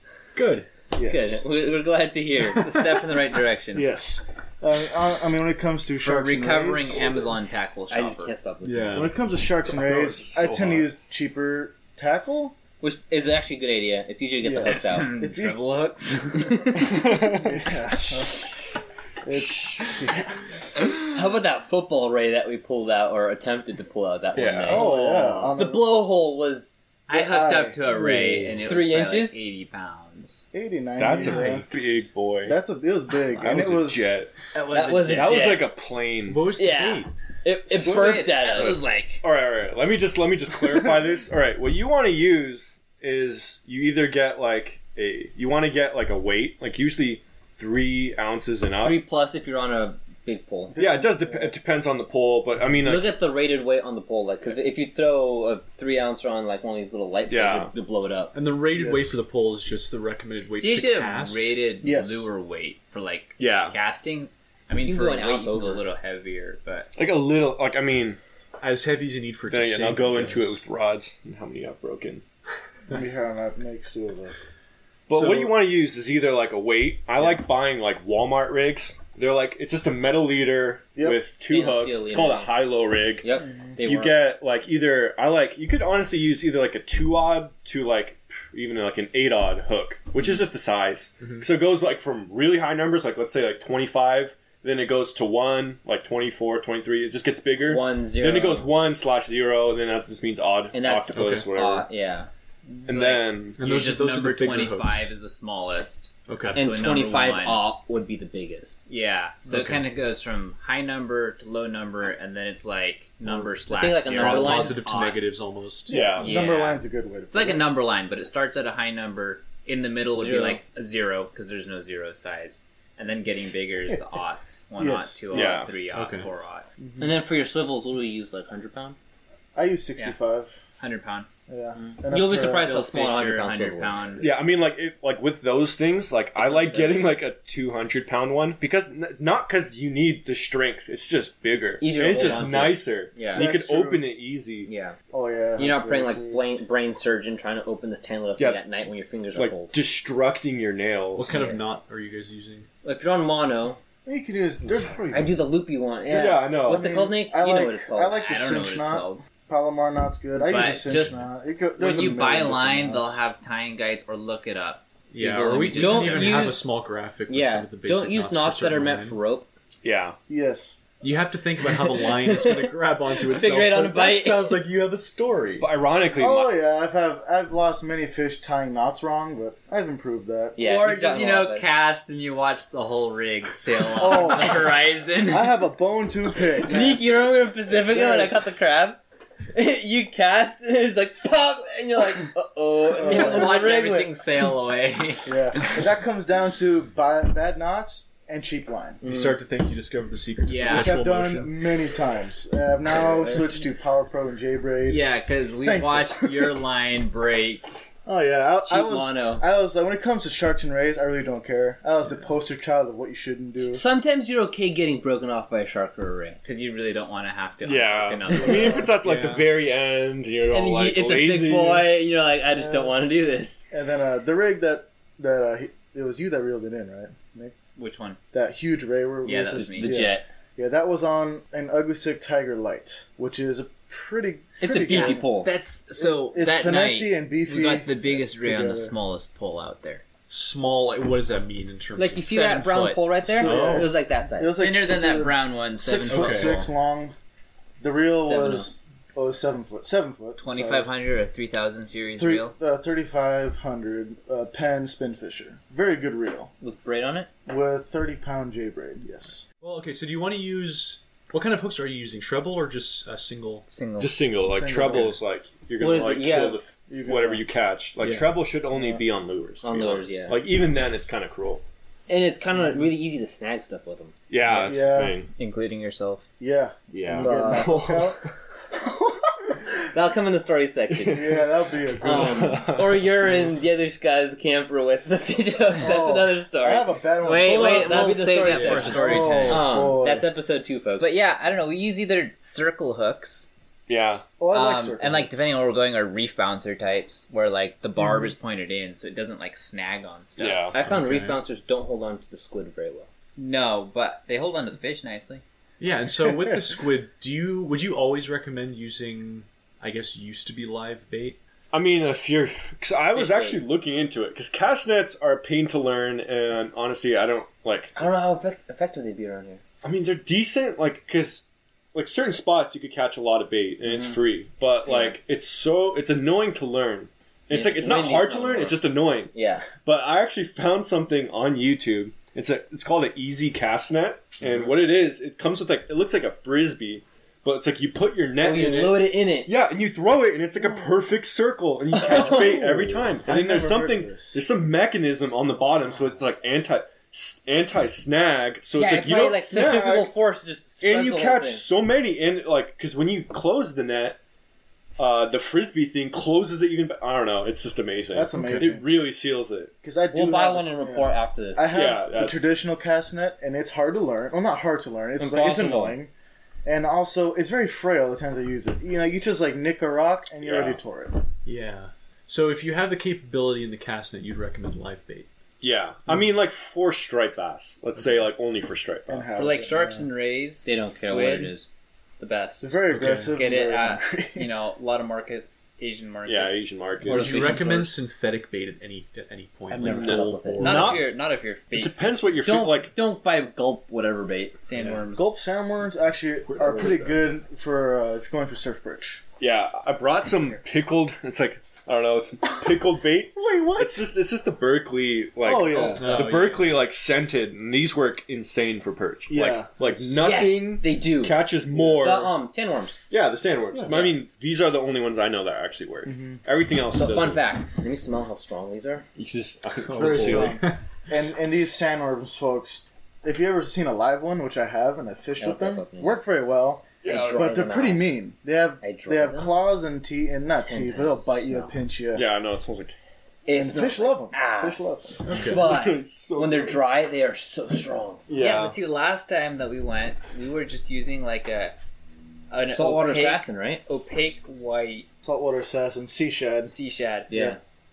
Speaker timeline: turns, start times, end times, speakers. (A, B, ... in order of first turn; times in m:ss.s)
0:00.3-0:00.7 A
0:00.9-0:01.6 B
0:01.0-0:03.1 C
0:02.5-0:03.9 D
0:03.7-0:07.2 B
0:06.0-0:08.3 D
0:07.9-0:09.1 C
0:08.6-0:10.9 A
0:08.9-0:12.6 B
0:12.8-0:15.1 C
0:14.4-0:15.6 B
0:14.6-0:17.1 D
0:16.6-0:17.0 C
0:16.9-0:18.5 B
0:19.2-0:20.3 B
0:20.8-0:26.7 C
0:24.4-0:24.9 E
0:24.7-0:25.9 B
0:27.1-0:28.7 B
0:27.1-0:30.4 D
0:28.6-0:29.4 C
0:30.5-0:31.7 B
0:31.0-0:32.6 E
0:31.2-0:31.6 A
0:32.4-0:34.2 B
0:33.3-0:34.3 E
0:34.5-0:35.6 D
0:34.7-0:35.7 C
0:35.1-0:36.5 E
0:36.3-0:37.1 A
0:36.6-0:38.8 C
0:37.7-0:39.2 D
0:38.5-0:49.0 E
0:48.8-0:50.8 C
0:50.7-0:51.6 B
0:50.8-0:53.1 E
0:52.8-0:58.3 C
0:57.3-0:57.7 E
0:58.3-1:01.6 A
0:58.7-0:59.2 B
1:00.6-1:06.9 D
1:01.8-1:02.2 B
1:03.4-1:03.8 E
1:04.8-1:05.8 C
1:07.0-1:08.2 E
1:08.6-1:10.6 A
1:09.5-1:12.2 E
1:12.9-1:14.4 B
1:15.1-1:23.2 E
1:15.1-1:15.5 A
1:21.0-1:21.2 B
1:21.4-1:22.6 C
1:23.2-1:24.2 C
1:23.4-1:23.8 B
1:23.8-1:41.9 E
1:31.2-1:31.4 A
1:37.6-1:38.7 C
1:40.7-1:42.3 C
1:41.1-1:41.5 A
1:42.8-1:43.6 E
1:43.6-1:45.1 A
1:43.6-1:47.6 D
1:46.3-1:46.6 A
1:46.5-1:48.8 C
1:48.9-1:55.2 D
1:49.5-1:49.8 A
1:53.6-1:54.8 C
1:54.1-1:56.0 A
1:55.9-1:56.4 E
1:55.9-1:57.6 B
1:56.2-1:56.8 D
1:57.3-2:06.7 D
2:00.1-2:00.6 C
2:03.9-2:04.2 B
2:04.8-2:05.7 B
2:05.3-2:05.8 E
2:05.9-2:06.4 A
2:06.8-2:07.1 B
2:07.0-2:09.0 C
2:09.5-2:10.6 B
2:10.8-2:11.3 D
2:11.5-2:12.7 B
2:11.7-2:14.1 C
2:12.6-2:14.3 D
2:14.2-2:24.7 E
2:16.4-2:17.0 D
2:21.8-2:23.5 C
2:23.3-2:24.0 B
2:24.6-2:25.0 C
2:25.1-2:26.4 B
2:25.6-2:29.8 C
2:29.3-2:31.4 E
2:31.2-2:32.7 A
2:31.3-2:31.6 C
2:32.8-2:33.8 C
2:34.0-2:35.4 B
2:35.1-2:38.2 C
2:36.1-2:36.9 E
2:36.6-2:43.2 B
2:38.1-2:39.2 D
2:40.4-2:41.2 D
2:41.8-2:46.5 D
2:45.1-2:49.2 A
2:45.7-2:46.7 C
2:47.3-2:49.5 C
2:49.8-2:50.2 E
2:50.3-2:50.8 B
2:51.0-2:55.7 A
2:51.6-2:54.6 C
2:55.6-2:56.5 E
2:56.1-3:00.6 B
3:00.6-3:01.7 C
3:00.6-3:05.6 D
3:04.0-3:07.0 B
3:06.6-3:09.0 C
3:07.7-3:08.5 B
3:09.5-3:14.5 C
3:12.9-3:13.6 B
3:13.0-3:15.8 D
3:15.2-3:19.0 B
3:19.0-3:19.4 C
3:19.0-3:21.5 A
3:20.4-3:21.0 D
3:20.7-3:25.0 B
3:22.9-3:23.5 C
3:24.9-3:27.7 D
3:25.6-3:26.6 B
3:28.0-3:33.8 B
3:28.6-3:29.4 D
3:33.7-3:36.4 C
3:36.4-3:38.9 D
3:37.6-3:41.9 E
3:39.0-3:39.6 A
3:40.5-3:43.7 C
3:42.5-3:43.0 B
3:43.7-3:47.5 B
3:47.8-3:48.2 D
3:48.3-3:55.3 B
3:49.2-3:50.0 D
3:49.7-3:50.3 C
3:54.6-3:55.5 C
3:54.8-4:00.0 D
3:56.0-3:58.9 B
4:00.3-4:02.2 A
4:02.0-4:04.6 C
4:02.2-4:03.0 D
4:03.2-4:07.1 B
4:03.4-4:04.0 A
4:04.6-4:06.6 D
4:06.1-4:06.6 A
4:07.8-4:10.9 B
4:08.2-4:08.7 C
4:10.4-4:12.5 D
4:12.2-4:16.5 B
4:16.6-4:17.3 C
4:17.4-4:19.4 B
4:19.6-4:23.6 A
4:23.7-4:24.2 D
4:24.0-4:31.6 E
4:24.4-4:25.2 B
4:25.8-4:26.6 C
4:26.9-4:27.4 B
4:28.0-4:28.4 A
4:28.7-4:29.0 B
4:29.6-4:30.4 C
4:32.1-4:34.1 C
4:34.3-4:35.3 E
4:34.5-4:34.7 A
4:34.6-4:35.2 B
4:35.4-4:36.2 D
4:36.4-4:39.3 B
4:36.9-4:38.2 E
4:37.2-4:37.7 C
4:39.9-4:41.5 C
4:41.1-4:42.6 B
4:42.0-4:51.1 C
4:42.0-4:43.1 E
4:45.8-4:48.2 B
4:47.2-4:49.7 D
4:48.5-4:49.2 A
4:48.7-4:50.3 B
4:51.0-4:53.5 D
4:53.9-4:54.3 E
4:54.4-4:55.4 B
4:54.5-5:00.7 D
5:00.4-5:00.8 E
5:00.7-5:03.1 C
5:00.8-5:01.4 A
5:03.4-5:05.4 D
5:05.8-5:11.4 A
5:11.7-5:18.0 E
5:13.1-5:13.6 C
5:18.0-5:19.6 C
5:19.8-5:21.4 E
5:21.9-5:50.1 E
5:23.8-5:24.2 C
5:24.8-5:25.2 C
5:27.5-5:29.7 C
5:38.4-5:39.5 C
5:41.9-5:42.7 C
5:42.0-5:44.4 B
5:48.7-5:51.6 C
5:50.8-5:54.2 E
5:55.0-5:59.7 E
5:58.1-5:58.8 B
5:58.3-5:58.7 A
5:59.8-6:06.1 B
6:00.1-6:01.8 C
6:01.7-6:02.4 E
6:05.2-6:06.0 C
6:06.6-6:11.2 B
6:10.4-6:10.8 E
6:11.4-6:15.3 A
6:15.6-6:19.5 E
6:19.1-6:20.1 B
6:19.4-6:21.5 D
6:20.6-6:21.7 C
6:22.2-6:26.7 D
6:22.6-6:24.5 B
6:22.9-6:23.4 A
6:26.2-6:27.6 E
6:27.0-6:31.0 A
6:27.1-6:27.9 C
6:27.3-6:27.6 D
6:29.7-6:31.0 C
6:29.8-6:31.1 E
6:30.6-6:32.0 D
6:31.7-6:32.9 E
6:32.4-6:34.6 C
6:34.6-6:35.3 D
6:34.7-6:35.0 A
6:35.1-6:39.2 B
6:36.5-6:37.1 A
6:36.6-6:37.0 E
6:39.4-6:52.3 E
6:43.3-6:44.1 B
6:45.4-6:46.2 B
6:45.7-6:46.8 A
6:49.3-6:50.2 B
6:50.2-6:51.4 C
6:51.7-6:52.3 B
6:52.0-6:53.0 C
6:53.1-6:57.4 E
6:53.7-6:54.0 B
6:53.9-6:54.2 C
6:56.0-6:56.4 B
6:56.9-6:59.0 C
6:59.2-7:00.6 E
6:59.9-7:00.8 A
6:59.9-7:12.3 B
7:05.4-7:06.2 C
7:07.0-7:07.5 E
7:07.0-7:08.1 C
7:08.8-7:09.6 C
7:10.6-7:11.7 C
7:12.1-7:12.9 E
7:13.4-7:18.3 C
7:13.5-7:15.2 B
7:15.2-7:15.7 A
7:15.5-7:17.0 E
7:18.3-7:18.8 E
7:18.4-7:21.8 D
7:22.5-7:25.1 D
7:22.7-7:23.8 C
7:25.2-7:26.7 B
7:26.7-7:27.3 D
7:27.3-7:27.6 B
7:27.3-7:27.6 C